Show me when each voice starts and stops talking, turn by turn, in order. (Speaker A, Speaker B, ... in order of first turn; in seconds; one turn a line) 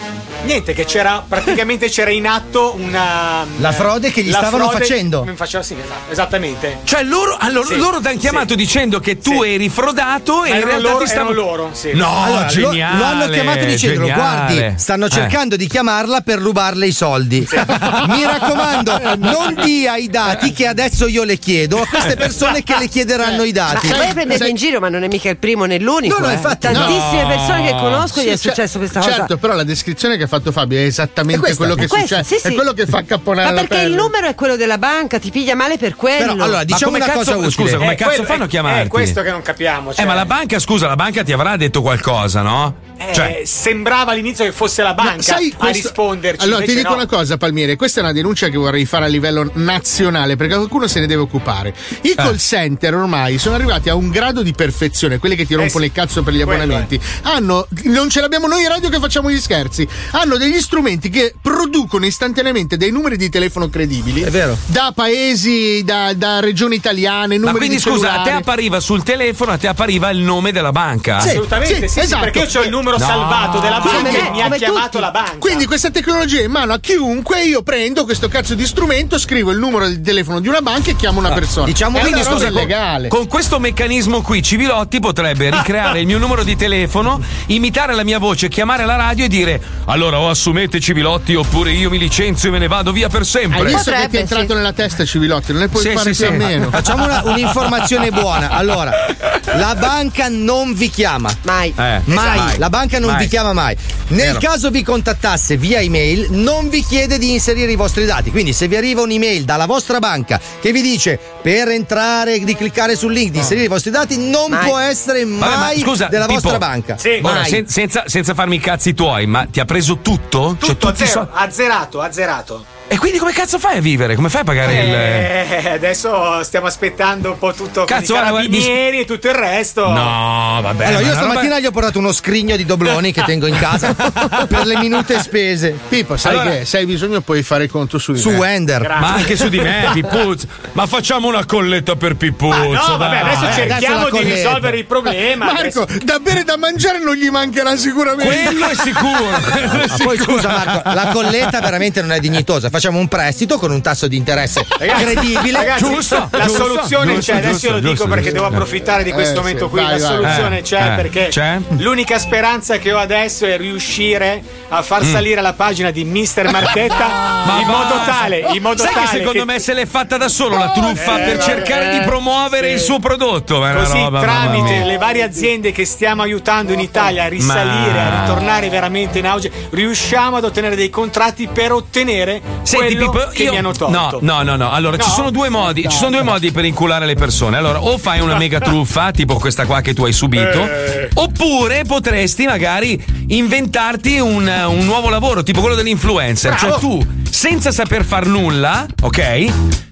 Speaker A: 0.4-6.8
Speaker B: 3.6-5.3
Speaker C: 6.8-11.4
Speaker A: 7.6-8.5
Speaker A: 9.2-9.5
Speaker A: 10.4-12.1
Speaker C: 11.9-15.3
Speaker B: 12.2-24.1
Speaker D: 17.8-19.6
Speaker D: 23.2-24.6
Speaker E: 23.7-29.3
Speaker B: 26.0-27.0
Speaker D: 26.7-27.2
Speaker C: 26.8-28.0
Speaker D: 28.1-34.1
Speaker B: 31.3-31.9
Speaker E: 31.8-32.7
Speaker E: 33.4-36.6
Speaker B: 36.2-37.8
Speaker C: 36.7-39.2
Speaker A: 37.7-40.3
Speaker C: 40.0-43.4
Speaker A: 43.0-47.1
Speaker D: 45.0-68.4
Speaker A: 55.6-55.8
Speaker A: 56.4-56.9
Speaker B: 64.2-64.6
Speaker C: 67.4-71.4
Speaker A: 71.2-75.7
Speaker D: 71.6-72.8
Speaker C: 72.9-74.5
Speaker D: 73.8-74.6
Speaker E: 74.2-74.9
Speaker D: 75.4-83.1
Speaker B: 81.6-82.7
Speaker C: 82.1-93.9
Speaker D: 93.5-96.8
Speaker E: 93.7-94.5
Speaker C: 95.8-98.3
Speaker B: 96.7-101.4
Speaker E: 101.4-101.8
Speaker C: 101.8-103.3
Speaker B: 102.0-117.6
Speaker C: 115.4-116.6
Speaker A: 117.0-117.5
Speaker C: 117.2-121.3
Speaker A: 120.6-122.7
Speaker C: 122.9-125.3
Speaker A: 124.6-130.2
Speaker C: 127.9-128.8
Speaker C: 129.8-131.5
Speaker B: 130.8-135.8
Speaker C: 133.8-134.5
Speaker D: 135.9-138.5
Speaker C: 136.2-136.6
Speaker B: 138.2-139.0
Speaker A: 138.8-140.0
Speaker C: 139.0-143.8
Speaker A: 142.5-145.8
Speaker B: 143.4-144.8
Speaker D: 145.4-149.1
Speaker C: 148.2-151.5
Speaker B: 149.7-156.1
Speaker A: 154.8-169.5
Speaker C: 155.7-158.6
Speaker D: 159.1-160.5
Speaker C: 160.2-161.7
Speaker C: 165.0-165.2
Speaker C: 167.4-174.9
Speaker A: 170.9-172.9
Speaker D: 171.0-171.5
Speaker A: 173.7-184.3
Speaker C: 177.4-178.4
Speaker C: 182.6-199.6
Speaker A: 184.9-186.1
Speaker A: 190.4-191.1
Speaker B: 196.5-196.8